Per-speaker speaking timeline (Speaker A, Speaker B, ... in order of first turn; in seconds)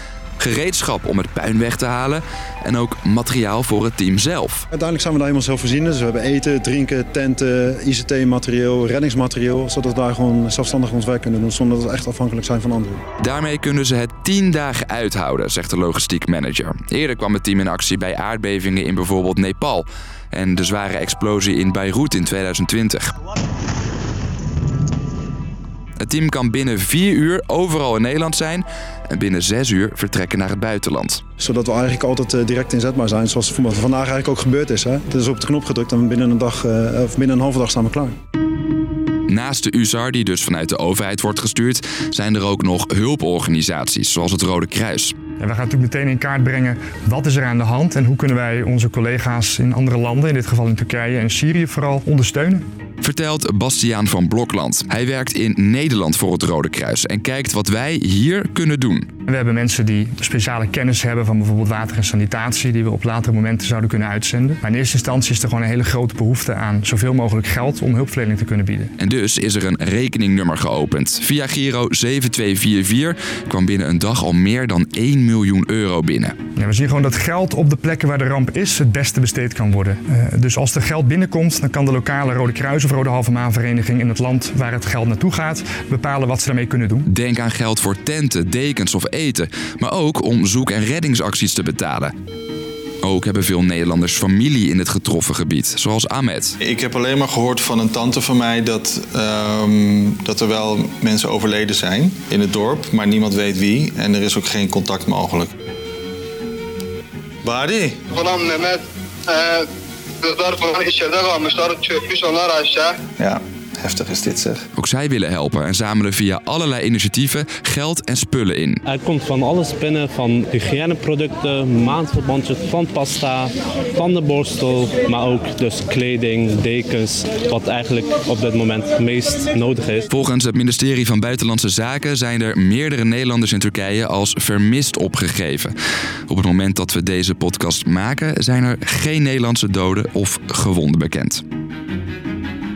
Speaker A: 0.4-4.6, 13.2-23.1, 26.0-31.2, 39.3-45.1, 53.0-59.1, 69.0-76.3, 87.1-92.1, 93.0-96.6, 114.8-118.8, 130.1-135.7, 136.3-141.4
Speaker B: 4.7-13.0, 31.4-38.1
Speaker C: 45.4-52.6, 59.3-68.9, 76.6-87.1
Speaker D: 96.6-105.5, 107.4-108.0, 113.2-114.6
Speaker E: 108.1-109.7, 110.2-113.0
Speaker F: 118.8-130.1